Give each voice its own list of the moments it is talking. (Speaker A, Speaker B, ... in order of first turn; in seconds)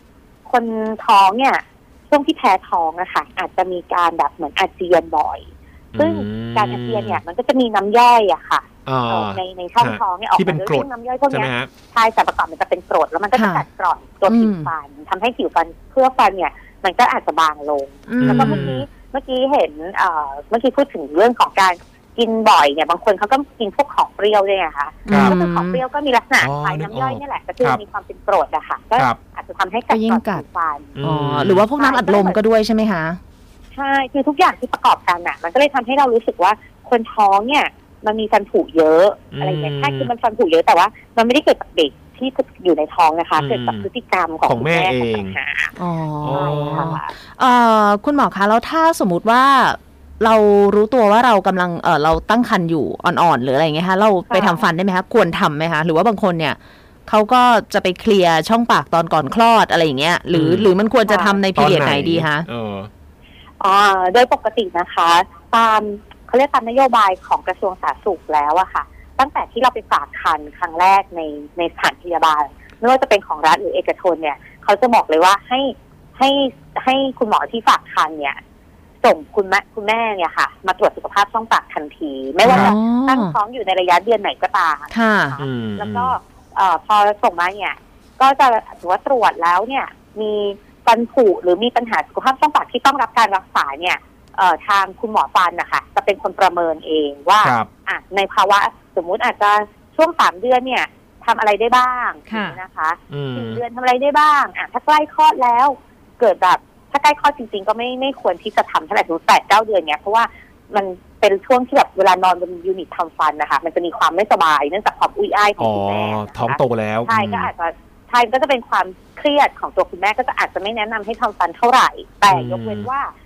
Speaker A: 0.5-31.0, 31.8-32.4, 33.7-45.8, 46.3-47.1, 54.3-54.7, 61.1-61.4, 63.6-78.4, 79.0-123.1
Speaker B: 5.9-7.2, 8.9-11.7, 18.2-18.9, 25.1-25.3, 26.4-27.8, 31.0-31.7, 39.3-40.1, 43.4-43.9, 44.5-45.4, 46.2-47.0, 60.3-60.7, 61.5-62.9, 82.5-82.7, 85.4-86.2, 97.4-97.7, 103.1-103.6, 115.6-117.5, 122.3-122.9
Speaker C: 13.3-13.7, 14.3-14.7, 18.1-18.7, 25.1-25.8, 29.9-30.4, 31.0-33.2, 45.8-62.5, 82.4-83.3, 84.9-85.4, 102.3-102.6